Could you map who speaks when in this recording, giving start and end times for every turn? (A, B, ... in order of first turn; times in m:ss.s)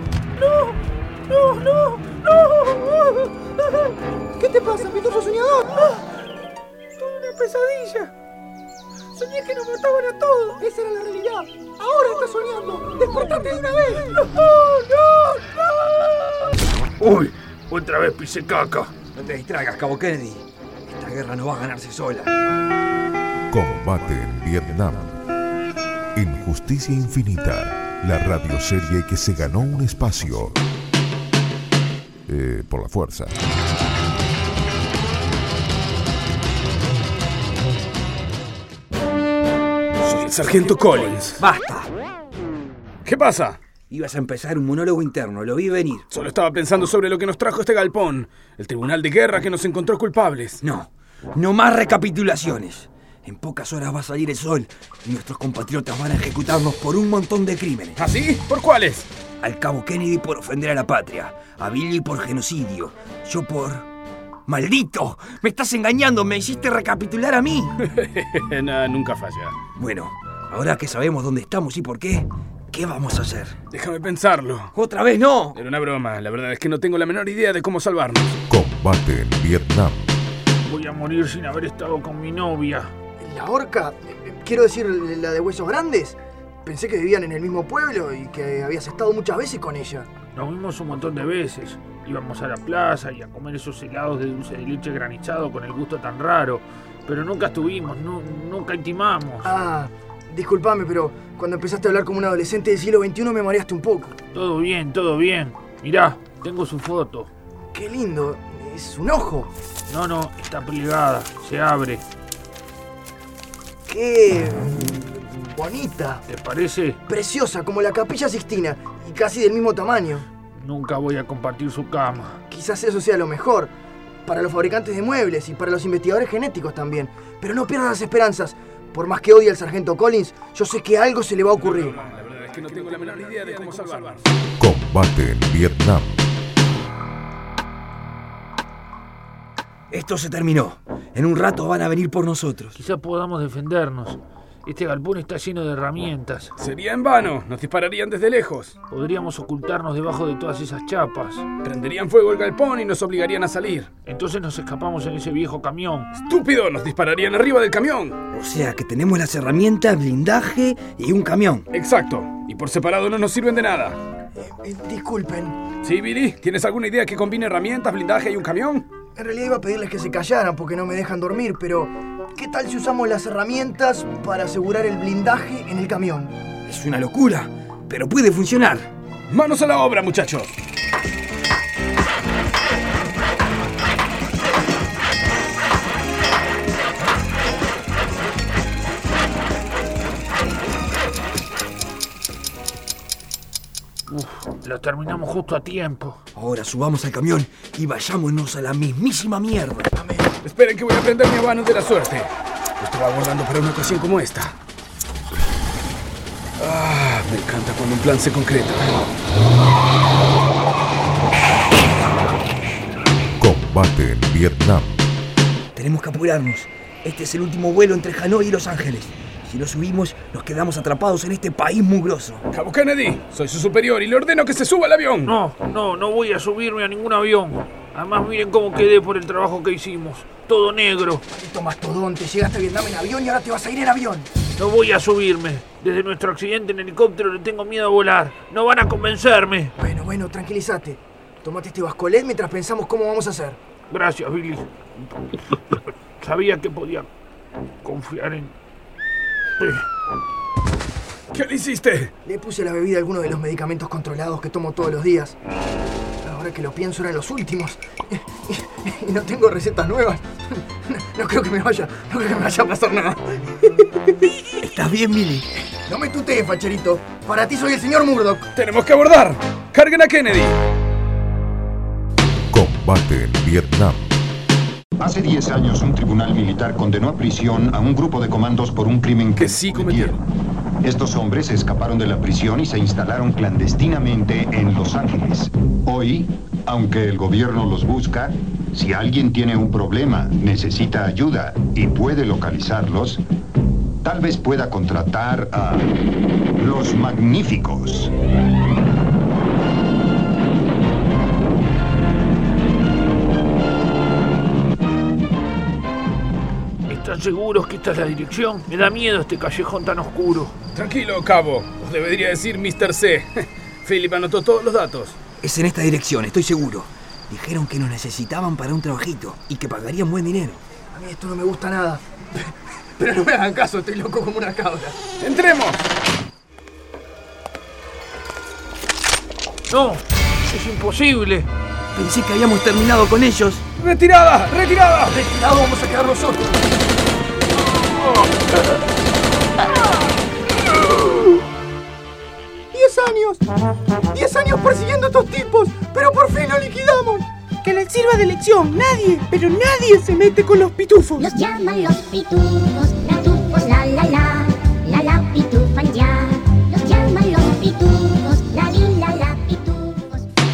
0:01.8-0:02.2 A
0:02.4-0:03.1 B
0:04.4-0:06.0 B
0:07.0-0:08.1 B
0:09.2-0:15.6 B
0:17.0-0:19.0 A
0:19.1-0:22.3 C
0:23.5-0:25.2 D
0:26.2-0:30.6 D
0:32.3-0:33.3 D
0:40.0-0:41.4 E
0:41.4-0:41.9 C
0:43.0-0:43.6 E
0:43.9-0:46.0 C
0:46.1-0:50.6 E
0:50.6-0:58.0 C
0:58.0-0:59.1 E
0:59.4-1:03.9 C
1:04.5-1:07.7 C
1:07.8-1:09.6 E
1:09.8-1:13.6 C
1:13.7-1:14.7 E
1:14.7-1:15.6 C
1:15.5-1:18.4 E
1:18.5-1:20.2 D
1:20.6-1:22.9 A
1:23.2-1:30.1 B
1:30.3-1:39.5 A
1:39.4-1:44.2 B
1:44.3-1:47.3 A
1:47.7-1:49.5 B
1:49.9-1:52.0 A
1:53.9-1:56.2 B
1:56.3-1:57.0 A
1:57.1-2:00.3 B
2:00.5-2:02.4 A
2:02.5-2:03.7 B
2:04.3-2:12.0 B
2:11.6-2:14.3 E
2:14.6-2:16.3 D
2:19.9-2:22.8 C
2:22.8-2:26.5 A
2:26.6-2:28.8 E
2:28.9-2:31.5 A
2:31.6-2:33.9 E
2:34.1-2:36.1 A
2:36.2-2:38.2 E
2:38.3-2:41.7 C
2:41.7-2:44.0 E
2:44.4-2:45.6 B
2:45.8-2:48.9 E
2:49.2-2:56.3 B
2:56.7-2:58.9 C
2:59.3-3:00.6 E
3:14.1-3:16.2 A
3:16.4-3:19.9 C
3:19.9-3:20.3 B
3:20.4-3:24.6 E
3:26.6-3:29.0 E
3:33.4-3:35.1 D
3:35.8-3:42.4 C
3:42.5-3:45.3 E
3:45.2-3:51.2 A
3:51.3-3:54.3 B
3:54.6-3:59.8 A
3:59.8-4:03.6 B
4:03.9-4:07.1 A
4:07.8-4:08.5 A
4:11.3-4:12.1 E
4:12.2-4:15.4 B
4:16.2-4:24.4 B
4:24.6-4:25.5 C
4:25.9-4:28.5 B
4:28.6-4:30.6 E
4:32.5-4:34.1 D
4:35.0-4:40.2 F
4:39.4-4:40.2 E
4:40.8-4:53.2 F
4:54.0-4:56.0 F
4:56.6-4:58.1 F
5:06.9-5:10.6 A
5:10.7-5:15.2 E
5:15.4-5:20.6 C
5:20.9-5:25.0 B
5:25.2-5:25.8 E
5:29.7-5:31.5 A
5:32.0-5:33.6 C
5:33.8-5:35.2 E
5:35.1-5:36.7 B
5:42.7-5:43.4 B
5:44.1-5:47.3 B
5:47.6-5:51.2 G
5:51.2-6:00.2 H